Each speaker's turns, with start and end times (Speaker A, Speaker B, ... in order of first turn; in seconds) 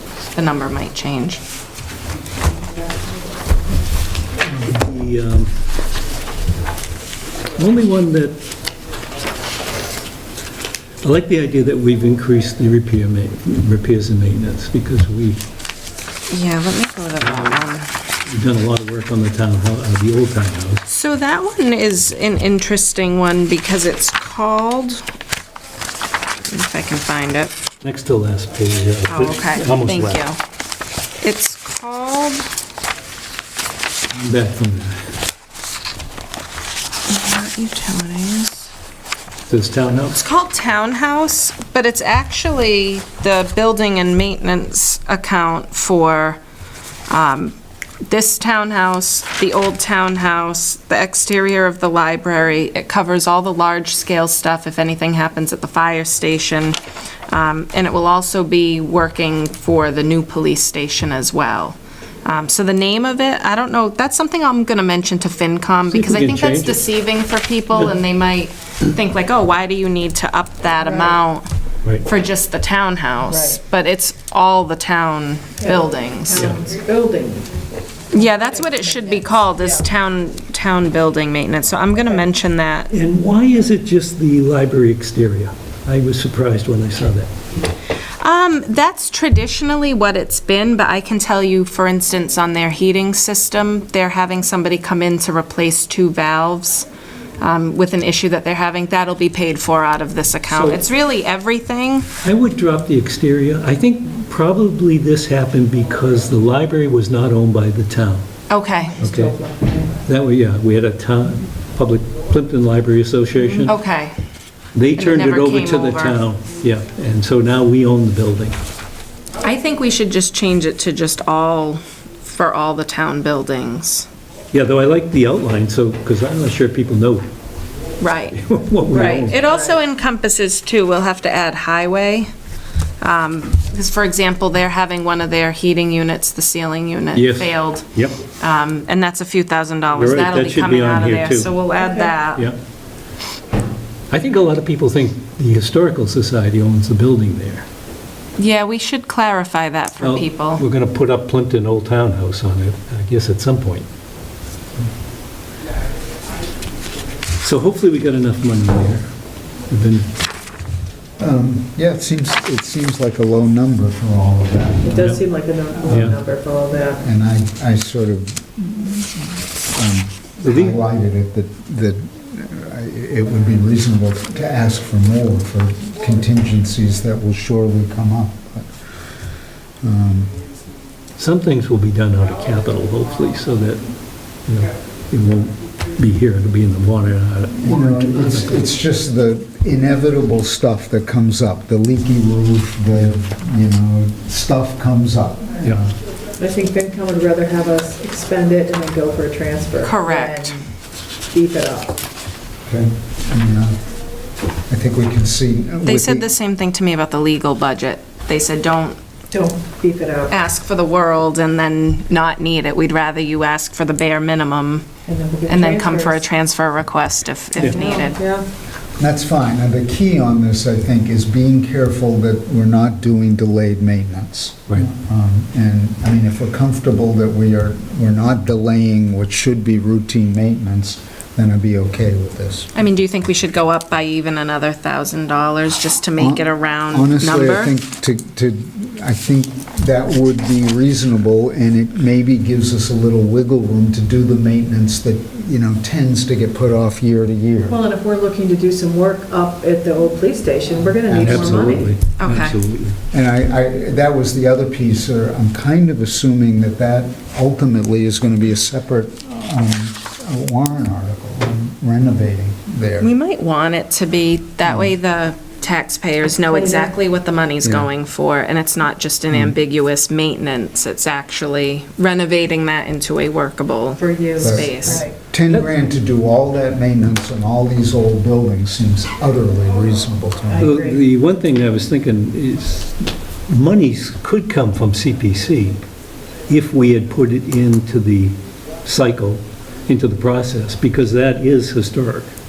Speaker A: 0.3-1.4, 16.3-17.9, 20.9-25.0, 26.4-27.5, 29.1-30.4, 31.2-32.5, 37.1-38.7, 40.1-46.4, 47.1-56.8, 57.3-71.5, 72.0-76.5, 78.1-82.9, 88.2-96.9, 97.4-102.1, 108.5-109.0, 113.6-114.2, 114.9-116.2, 119.4-124.1, 128.0-132.3, 133.0-142.5, 148.4-150.6, 199.8-200.6, 205.8-209.0, 210.3-214.9, 215.5-218.2, 232.8-237.7, 252.2-252.6, 263.0-275.1
Speaker B: 4.4-5.6, 7.6-8.4, 11.0-15.4, 17.2-17.6, 18.3-20.9, 27.8-30.2, 34.1-35.1, 39.5-40.2, 65.9-66.8, 82.9-87.3, 100.5-100.8, 102.2-108.3, 109.0-109.3, 110.0-113.8, 114.7-118.6, 124.5-127.2, 128.3-129.4, 137.1-138.2, 139.9-141.6, 144.1-147.7, 150.0-153.9, 157.4-159.1, 159.7-160.1, 165.9-166.2, 170.4-170.8, 181.2-183.9, 184.5-188.6, 192.9-193.2, 195.6-195.9, 251.2-253.0, 280.6-285.8, 286.5-292.3
Speaker C: 73.3-73.6, 75.6-77.5, 78.1-79.8, 109.0-109.9, 141.8-142.1, 164.8-167.0, 196.4-200.7, 201.3-202.0, 209.3-210.3, 215.1-216.2, 217.6-218.5, 247.7-251.9, 266.5-266.9, 274.0-275.1, 280.5-281.0
Speaker D: 161.2-165.2, 165.9-166.2, 167.0-178.7, 179.8-180.4, 187.6-195.6, 202.7-203.8, 204.7-206.3, 219.0-232.7, 236.2-247.8, 251.1-251.8, 253.1-263.1, 274.4-280.7